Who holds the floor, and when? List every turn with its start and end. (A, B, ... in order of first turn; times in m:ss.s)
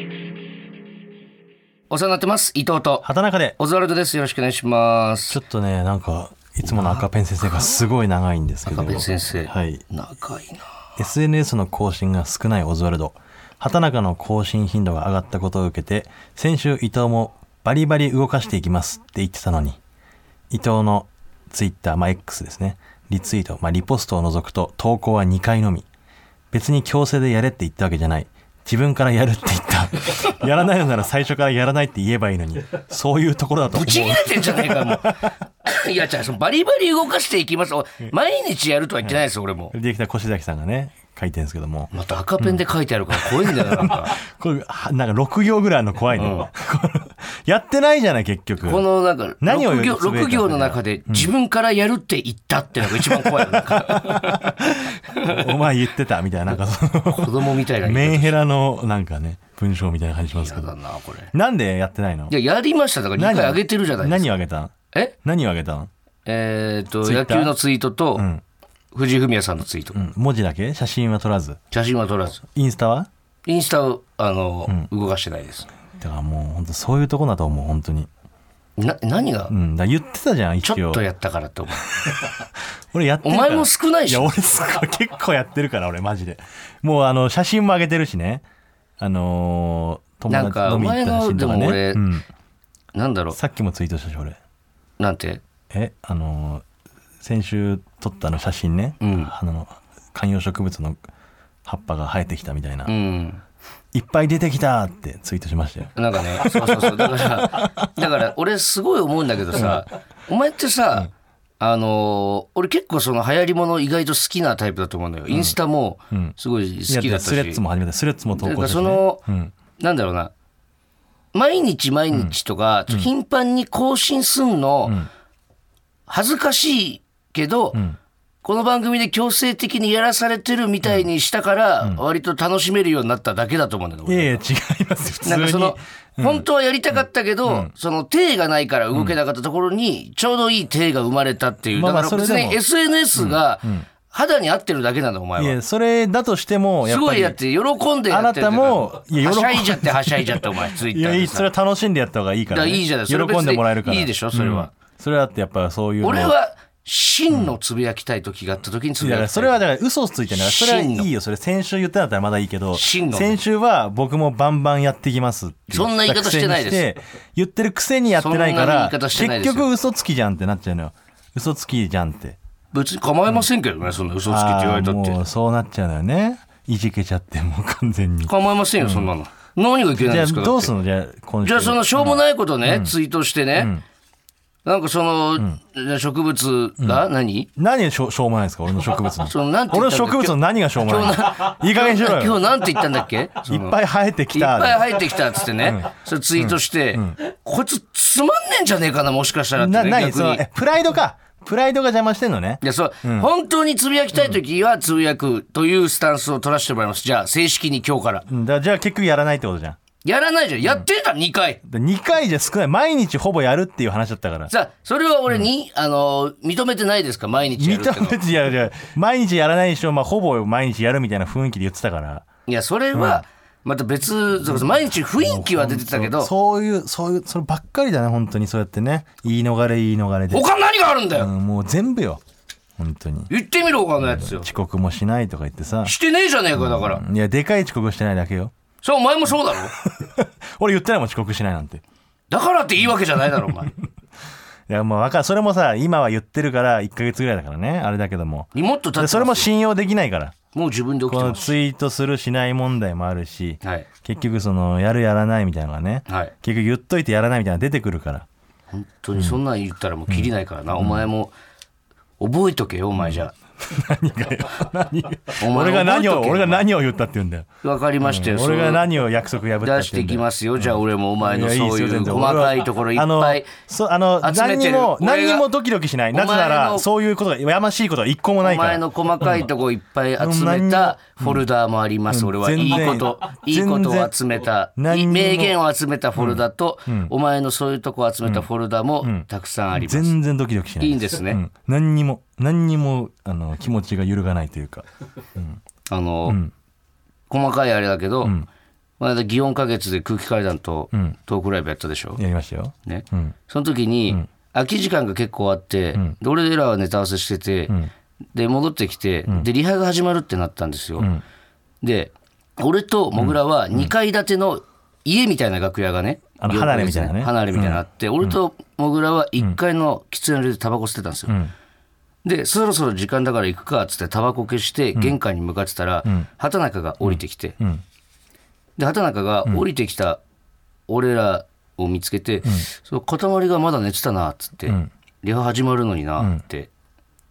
0:01.9-0:03.0 A
0:03.0-0:03.6 B
0:03.6-0:05.4 A
0:05.3-0:09.8 B
0:06.6-0:07.1 A
0:08.7-0:10.7 A
0:11.0-0:19.8 B
0:20.5-0:25.9 B
0:26.5-0:35.3 B
0:33.7-0:35.1 A
0:35.6-0:39.7 A
0:39.7-0:42.6 B
0:41.9-0:44.2 A
0:43.1-0:48.8 B
0:46.2-0:46.5 A
0:48.6-0:54.4 A
0:49.4-0:51.3 B
0:52.8-1:00.7 B
0:55.1-0:55.5 A
0:57.1-0:58.4 A
1:00.4-1:01.3 A
1:01.3-1:02.3 B
1:02.3-1:04.3 A
1:03.2-1:05.9 B
1:06.3-1:08.3 A
1:07.0-1:07.6 B
1:08.2-1:08.4 B
1:08.9-1:10.0 A
1:09.9-1:11.6 B
1:11.7-1:12.4 A
1:12.5-1:13.1 B
1:13.4-1:15.7 A
1:15.9-1:18.1 B
1:18.8-1:19.5 A
1:19.5-1:21.0 B
1:20.6-1:21.9 A
1:22.0-1:28.4 B
1:23.2-1:24.4 A
1:29.0-1:32.3 B
1:30.3-1:32.0 A
1:32.9-1:33.4 A
1:33.3-1:34.4 B
1:35.0-1:35.4 A
1:35.7-1:36.6 B
1:37.2-1:41.0 B
1:39.0-1:39.3 A
1:41.7-1:42.9 B
1:42.9-1:43.4 A
1:43.9-1:47.9 B
1:46.0-1:57.6 A
1:49.5-1:49.8 B
1:55.3-1:55.6 B
1:56.9-1:59.5 B
1:58.4-1:59.2 A
1:59.8-2:00.3 A
2:01.3-2:05.0 A
2:06.1-2:07.8 A
2:08.4-2:14.3 A
2:14.1-2:16.4 B
2:15.2-2:25.6 A
2:17.4-2:17.7 B
2:21.7-2:22.6 B
2:23.2-2:23.8 B
2:25.4-2:27.4 B
2:26.8-2:31.5 A
2:28.1-2:36.3 B
2:32.5-2:34.7 A
2:36.0-2:39.6 A
2:39.0-2:52.4 B
2:40.3-2:41.1 A
2:42.7-2:43.4 A
2:45.7-2:46.8 A
2:48.2-2:49.7 A
2:52.7-2:55.2 A
2:54.2-2:59.1 B
2:58.3-3:00.7 A
3:00.0-3:02.9 B
3:01.4-3:03.7 A
3:04.6-3:07.5 A
3:07.6-3:12.4 B
3:09.2-3:13.8 A
3:13.5-3:15.0 B
3:14.3-3:20.4 A
3:15.6-3:17.2 B
3:19.6-3:23.3 B
3:22.6-3:28.3 A
3:28.3-3:29.8 B
3:30.0-3:31.6 A
3:31.7-3:34.5 B
3:34.5-3:38.2 A
3:37.6-3:42.2 B
3:42.5-3:46.3 A
3:42.9-3:43.2 B
3:44.4-3:50.5 B
3:50.3-3:51.3 A
3:51.1-3:52.2 B
3:52.8-3:53.3 B
3:53.3-3:54.5 A
3:54.0-3:55.9 B
3:55.8-3:57.0 A
3:56.6-3:58.5 B
3:58.8-3:59.8 A
3:59.7-4:01.8 B
4:02.3-4:03.7 A
4:04.7-4:10.4 B
4:08.5-4:09.5 A
4:10.5-4:11.5 A
4:11.1-4:18.2 B
4:13.6-4:13.9 A
4:16.1-4:16.3 A
4:18.7-4:21.3 A
4:20.1-4:21.1 B
4:22.2-4:23.3 A
4:23.0-4:27.5 B
4:25.4-4:26.6 A
4:27.6-4:28.8 A
4:28.0-4:39.5 B
4:29.6-4:33.5 A
4:34.2-4:35.4 A
4:36.1-4:36.9 A
4:38.4-4:50.1 A
4:40.2-4:41.5 B
4:42.1-4:44.2 B
4:44.8-4:45.6 B
4:46.2-4:47.1 B
4:49.0-4:55.6 B
4:50.8-4:51.4 A
4:55.9-4:56.4 A
4:56.2-4:56.5 B
4:57.3-4:58.4 A
4:59.0-5:02.2 A
5:02.2-5:03.3 B
5:02.8-5:07.8 A
5:08.3-5:11.1 A
5:11.8-5:21.4 A
5:13.2-5:13.9 B
5:16.4-5:18.4 B
5:22.2-5:27.6 A
5:27.0-5:27.8 B
5:28.8-5:30.2 A
5:30.9-5:36.7 A